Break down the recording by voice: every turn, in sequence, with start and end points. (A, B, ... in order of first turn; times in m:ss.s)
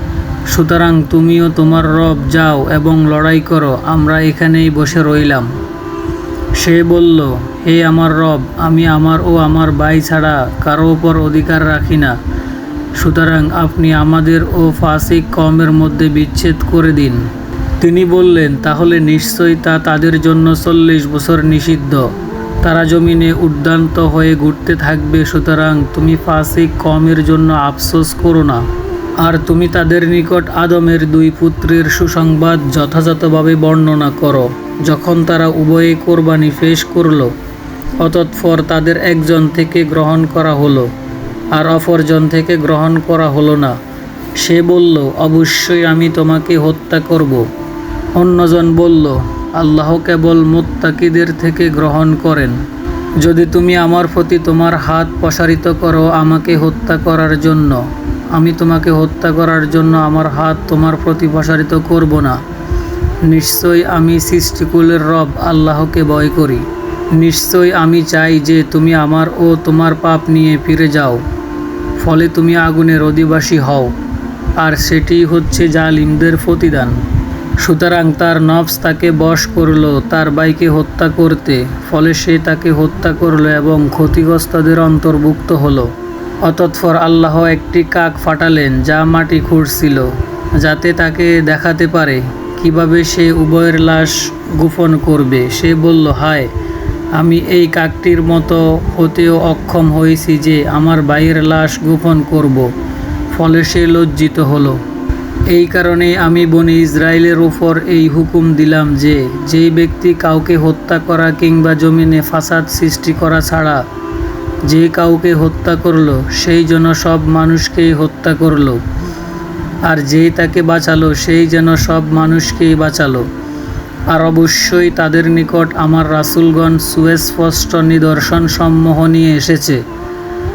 0:00.5-0:05.5 A
0:06.5-0:12.2 A
0:13.0-0:17.2 A
0:17.8-0:22.1 A
0:22.6-0:28.6 A
0:29.2-0:37.3 A
0:37.9-0:40.9 A
0:41.5-0:43.8 A
0:44.4-0:47.5 A
0:48.1-0:52.6 A
0:53.2-1:02.4 A
1:03.2-1:11.2 A
1:12.0-1:13.9 A
1:14.6-1:17.0 A
1:17.6-1:25.9 A
1:26.4-1:36.5 A
1:37.1-1:42.7 A
1:43.3-1:44.8 A
1:45.5-1:53.8 A
1:54.6-1:58.8 A
1:59.8-2:03.3 A
2:04.1-2:09.8 A